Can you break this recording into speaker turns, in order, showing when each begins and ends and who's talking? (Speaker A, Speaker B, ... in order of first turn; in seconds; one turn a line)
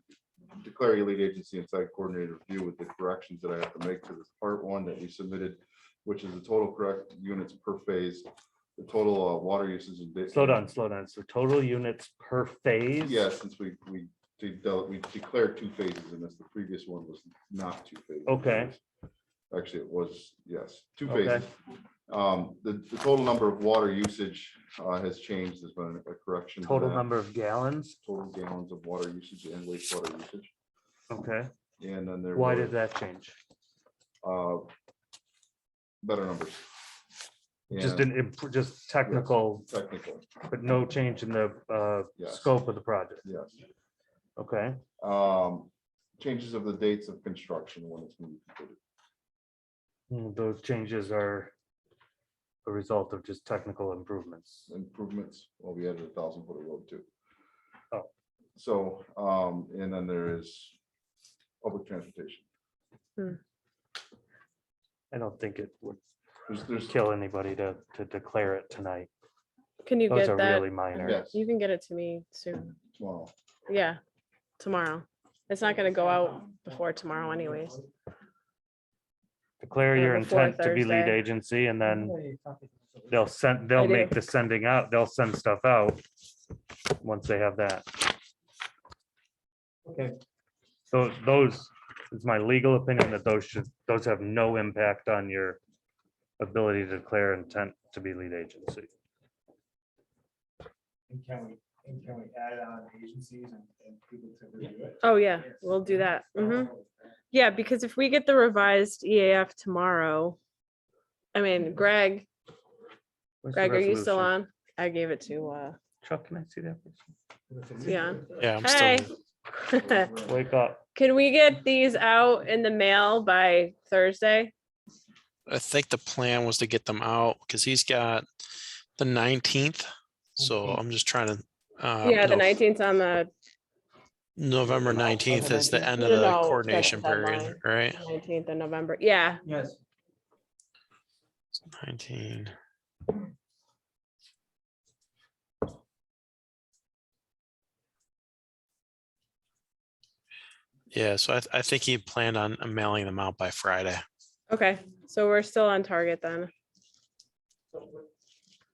Speaker A: 0.5-10.7
Speaker B: 10.3-13.2
Speaker A: 13.0-18.8
Speaker B: 18.2-18.7
Speaker A: 19.5-21.6
Speaker B: 21.1-21.4
Speaker A: 22.1-27.1
Speaker B: 26.6-28.0
Speaker A: 28.0-30.5
Speaker B: 31.1-31.5
Speaker A: 31.8-32.8
Speaker B: 32.3-33.4
Speaker A: 34.2-34.7
Speaker A: 36.0-36.7
Speaker A: 37.7-38.1
Speaker B: 37.7-39.7
Speaker A: 39.0-40.3
Speaker B: 40.5-43.2
Speaker A: 42.2-42.5
Speaker A: 43.2-43.5
Speaker B: 44.4-44.8
Speaker A: 45.0-48.8
Speaker B: 50.1-51.5
Speaker B: 52.6-54.7
Speaker A: 54.7-57.1
Speaker A: 58.5-60.7
Speaker A: 61.6-62.4
Speaker B: 65.1-66.0
Speaker A: 66.5-66.9
Speaker B: 66.8-69.1
Speaker C: 69.8-72.7
Speaker B: 70.1-71.2
Speaker A: 71.0-71.4
Speaker A: 72.9-73.3
Speaker C: 73.7-74.0
Speaker C: 74.6-77.8
Speaker D: 75.6-77.9
Speaker B: 79.6-82.1
Speaker C: 79.9-81.2
Speaker E: 81.8-83.2
Speaker B: 83.1-86.0
Speaker C: 83.8-84.1
Speaker B: 87.0-88.0
Speaker E: 89.8-90.1
Speaker B: 90.9-95.6
Speaker B: 96.4-98.9
Speaker D: 101.1-107.2
Speaker C: 105.0-106.7
Speaker C: 107.3-110.4
Speaker C: 111.3-112.3
Speaker B: 113.4-114.3
Speaker C: 113.5-115.8
Speaker B: 116.0-117.0
Speaker D: 117.6-118.4
Speaker C: 117.8-120.1
Speaker F: 118.3-119.1
Speaker B: 120.2-120.8
Speaker C: 120.9-124.5
Speaker F: 125.5-128.2
Speaker F: 129.0-129.9
Speaker F: 130.4-132.6
Speaker E: 130.4-130.8
Speaker C: 132.0-133.3
Speaker F: 134.3-138.0
Speaker E: 134.8-136.0
Speaker C: 135.9-139.4
Speaker E: 139.4-139.8
Speaker F: 141.8-142.5
Speaker F: 150.9-154.0
Speaker C: 154.5-156.5
Speaker D: 157.7-158.1